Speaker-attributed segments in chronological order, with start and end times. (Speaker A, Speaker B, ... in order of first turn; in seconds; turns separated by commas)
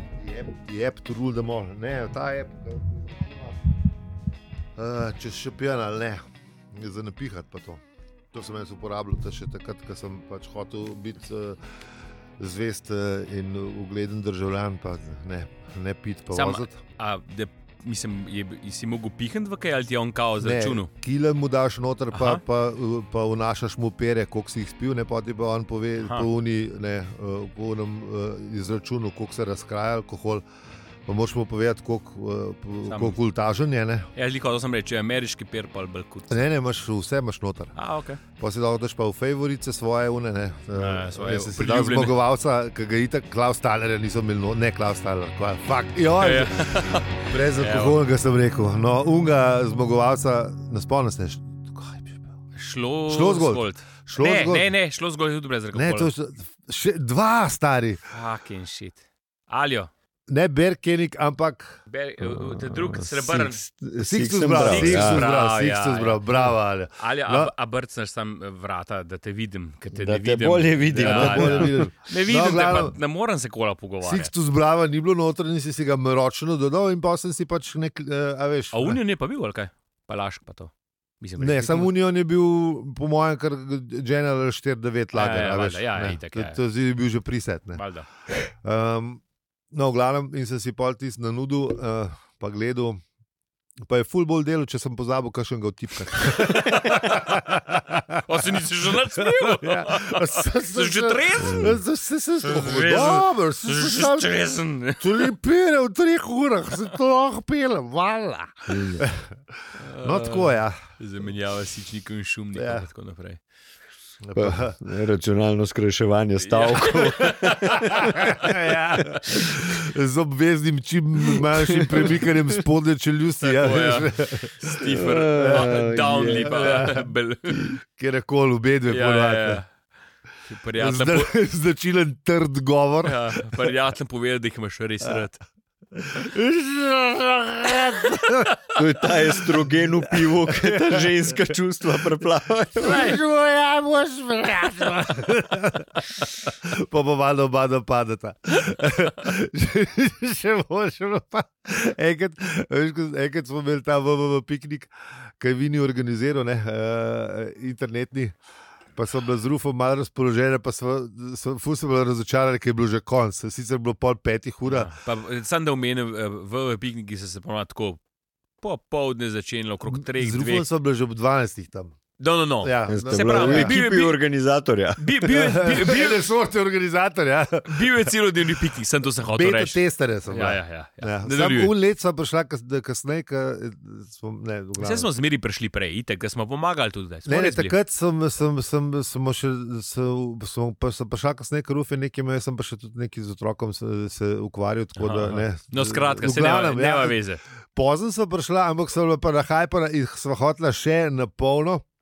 Speaker A: 0.2-3.6, Speaker A: 4.8-7.8, Speaker A: 8.3-11.6, Speaker A: 12.4-16.8, Speaker B: 16.3-20.9, Speaker A: 20.4-30.4, Speaker B: 22.1-22.4, Speaker B: 26.0-26.3, Speaker A: 31.1-34.1, Speaker B: 32.9-33.2, Speaker B: 34.1-36.3, Speaker A: 36.3-37.7, Speaker B: 37.8-38.2, Speaker A: 38.3-52.3, Speaker B: 40.7-42.2, Speaker B: 46.2-48.0, Speaker B: 52.5-56.1, Speaker A: 53.1-54.7, Speaker A: 55.7-58.0, Speaker B: 58.1-59.9, Speaker A: 60.3-61.8, Speaker B: 61.9-63.6, Speaker C: 62.2-65.3, Speaker A: 64.0-67.5, Speaker B: 64.7-66.2, Speaker B: 67.0-74.3, Speaker C: 69.9-71.9, Speaker A: 70.9-72.9, Speaker A: 74.0-79.0, Speaker B: 78.7-81.9, Speaker A: 81.4-87.8, Speaker B: 85.1-86.6, Speaker B: 87.8-88.1, Speaker A: 88.4-93.0, Speaker A: 93.8-104.3, Speaker B: 96.2-97.2, Speaker B: 98.2-101.8, Speaker C: 101.4-101.8, Speaker B: 102.4-105.3, Speaker A: 105.0-109.2, Speaker C: 108.7-109.0, Speaker B: 109.8-113.4, Speaker A: 109.8-110.8, Speaker A: 112.5-112.9, Speaker A: 114.2-114.8, Speaker C: 114.3-118.2, Speaker B: 116.4-118.5, Speaker A: 117.9-124.5, Speaker C: 121.8-122.1, Speaker B: 123.4-127.7, Speaker C: 124.8-126.9, Speaker A: 125.3-127.1, Speaker A: 127.9-129.6, Speaker B: 128.9-129.7, Speaker B: 130.5-131.3, Speaker A: 130.8-133.7, Speaker B: 133.0-135.4, Speaker A: 135.9-138.5, Speaker B: 137.9-138.5, Speaker C: 138.7-143.2, Speaker A: 139.1-139.6, Speaker A: 140.1-141.5, Speaker A: 142.8-158.3, Speaker B: 142.9-143.1, Speaker A: 158.9-164.9, Speaker B: 164.6-168.0, Speaker B: 168.6-170.7, Speaker A: 169.9-172.0, Speaker B: 172.2-174.2, Speaker A: 172.6-173.8, Speaker C: 172.9-175.5, Speaker B: 175.0-176.2, Speaker A: 175.3-178.1, Speaker B: 177.7-181.7, Speaker A: 179.2-185.1, Speaker B: 184.8-187.8, Speaker A: 187.2-197.2, Speaker B: 194.9-197.4, Speaker A: 197.7-201.8